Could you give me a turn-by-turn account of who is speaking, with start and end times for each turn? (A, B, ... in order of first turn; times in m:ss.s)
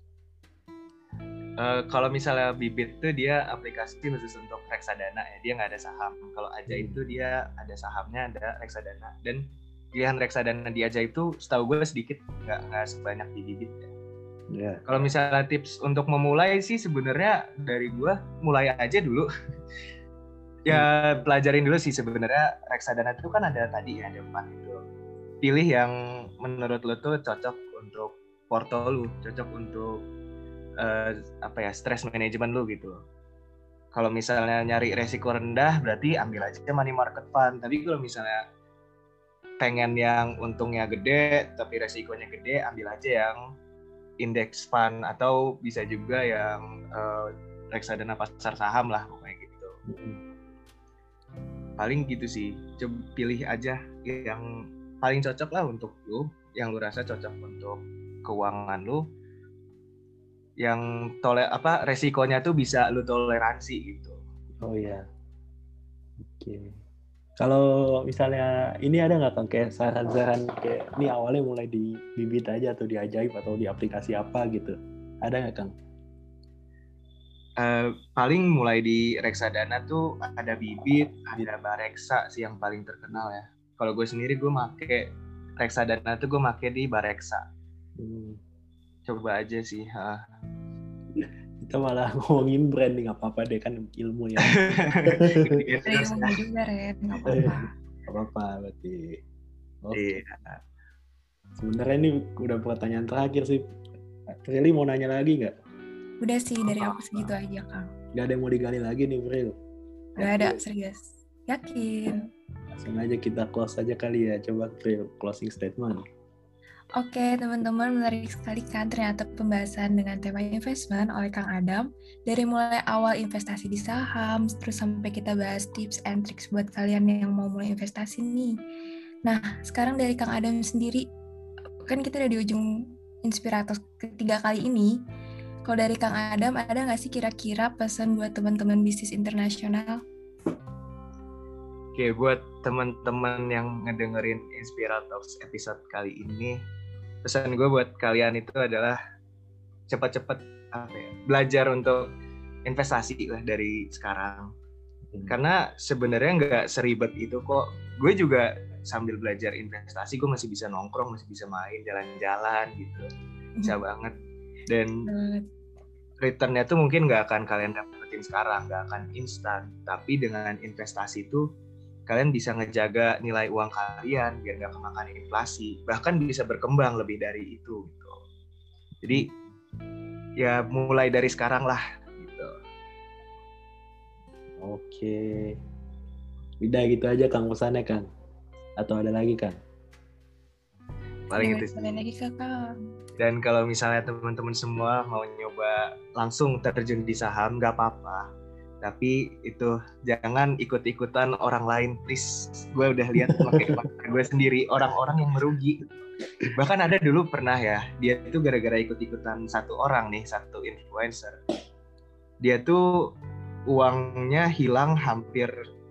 0:01.6-0:13.9 A
0:06.7-0:07.0 B
0:14.5-0:15.1 B
0:14.9-0:19.3 A
0:20.7-0:24.8 A
0:25.4-0:30.0 A
0:30.8-0:33.0 A
0:33.9-0:38.4 A
0:39.6-0:43.4 A
0:44.2-0:49.8 A
0:49.9-0:50.2 B
0:51.8-0:54.5 A
0:55.0-0:59.0 A
1:00.6-1:04.2 A
1:04.6-1:05.0 B
1:06.2-1:06.8 B
1:07.4-1:15.7 B
1:17.6-1:27.4 A
1:28.0-1:28.4 B
1:29.1-1:30.2 A
1:31.2-1:35.6 B
1:34.4-1:36.4 A
1:35.9-1:37.7 C
1:37.3-1:37.6 B
1:38.1-1:39.2 B
1:39.8-1:40.2 B
1:39.9-1:40.6 A
1:41.6-1:43.6 B
1:44.3-1:45.5 B
1:46.2-1:47.8 C
1:46.7-1:47.3 B
1:48.2-1:49.5 B
1:50.2-1:52.2 C
1:50.2-1:50.6 B
1:52.7-1:56.0 B
1:57.0-2:08.5 C
2:09.3-2:11.0 C
2:11.9-2:12.6 C
2:13.2-2:14.9 C
2:15.7-2:20.0 C
2:22.0-2:26.6 A
2:27.2-2:29.0 A
2:29.9-2:32.1 A
2:32.7-2:34.5 A
2:35.1-2:35.4 B
2:35.3-2:43.1 A
2:43.6-2:44.1 A
2:44.7-2:45.0 A
2:45.0-2:45.4 C
2:46.2-2:51.4 A
2:52.1-2:58.2 A
2:59.0-2:59.3 A
3:00.4-3:02.5 A
3:04.6-3:05.6 B
3:06.6-3:08.0 B
3:08.8-3:09.6 B
3:11.3-3:12.0 A
3:11.3-3:12.7 C
3:13.2-3:18.3 A
3:18.8-3:25.9 A
3:23.3-3:23.8 B
3:26.6-3:31.4 A
3:32.4-3:33.0 A
3:33.7-3:35.5 A